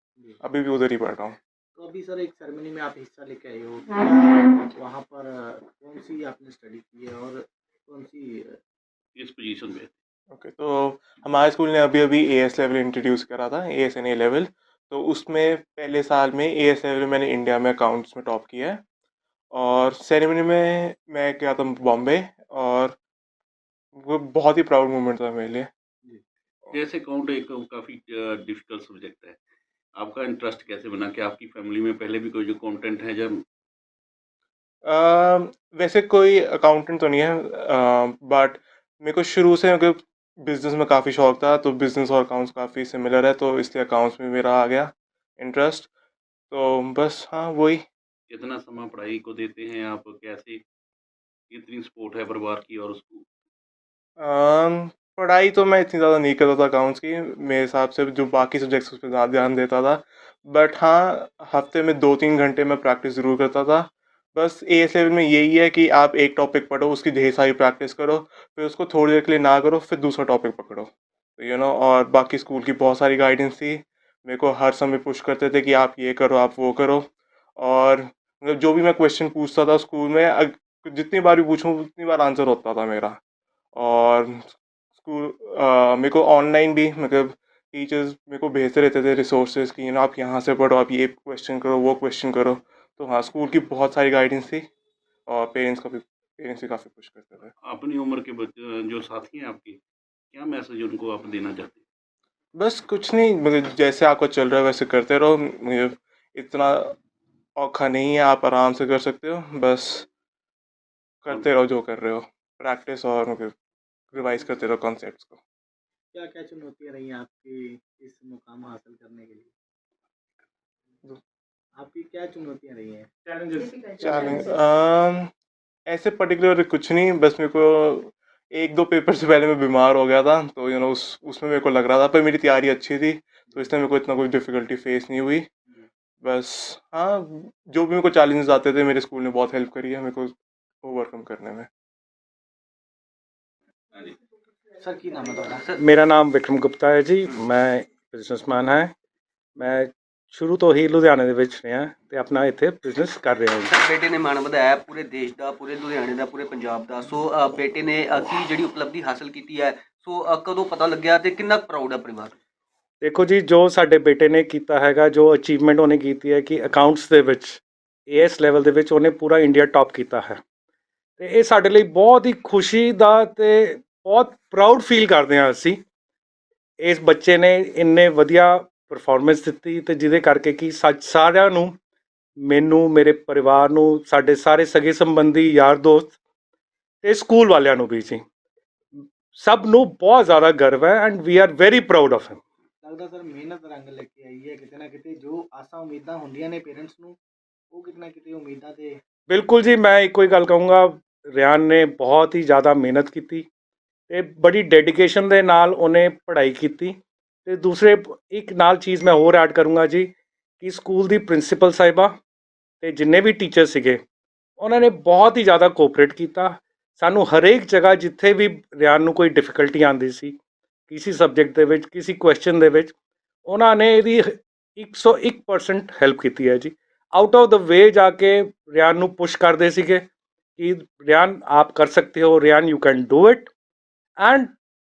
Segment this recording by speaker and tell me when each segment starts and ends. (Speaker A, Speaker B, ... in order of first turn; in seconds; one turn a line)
Speaker A: 0.4-1.4
Speaker B: 1.7-8.6
Speaker C: 9.2-9.9
Speaker A: 10.3-18.8
Speaker A: 19.5-22.9
Speaker A: 24.0-25.7
Speaker C: 26.7-29.4
Speaker C: 30.0-33.4
Speaker A: 34.8-45.9
Speaker A: 46.5-47.8
Speaker C: 48.3-50.6
Speaker C: 51.5-53.2
Speaker A: 54.2-83.2
Speaker A: 83.7-94.7
Speaker A: 95.3-97.5
Speaker C: 97.6-99.8
Speaker C: 100.3-101.8
Speaker A: 102.5-106.9
Speaker A: 107.6-110.0
Speaker A: 111.2-113.5
Speaker A: 114.1-115.4
Speaker B: 116.1-119.5
Speaker B: 121.8-123.1
Speaker A: 124.0-125.3
Speaker A: 125.9-135.5
Speaker A: 136.2-141.7
Speaker B: 144.8-145.7
Speaker D: 145.3-145.8
Speaker E: 145.8-148.9
Speaker E: 149.6-153.7
Speaker D: 153.6-162.3
Speaker E: 163.0-170.4
Speaker E: 171.2-175.8
Speaker E: 176.8-181.7
Speaker E: 182.4-186.1
Speaker E: 187.0-188.2
Speaker E: 189.3-192.4
Speaker B: 192.8-197.2
Speaker B: 197.7-199.0
Speaker E: 199.3-203.4
Speaker E: 204.1-212.1
Speaker E: 212.8-214.0
Speaker E: 214.6-220.3
Speaker E: 220.9-222.9
Speaker E: 223.5-230.0
Speaker E: 230.6-233.5
Speaker E: 234.2-234.5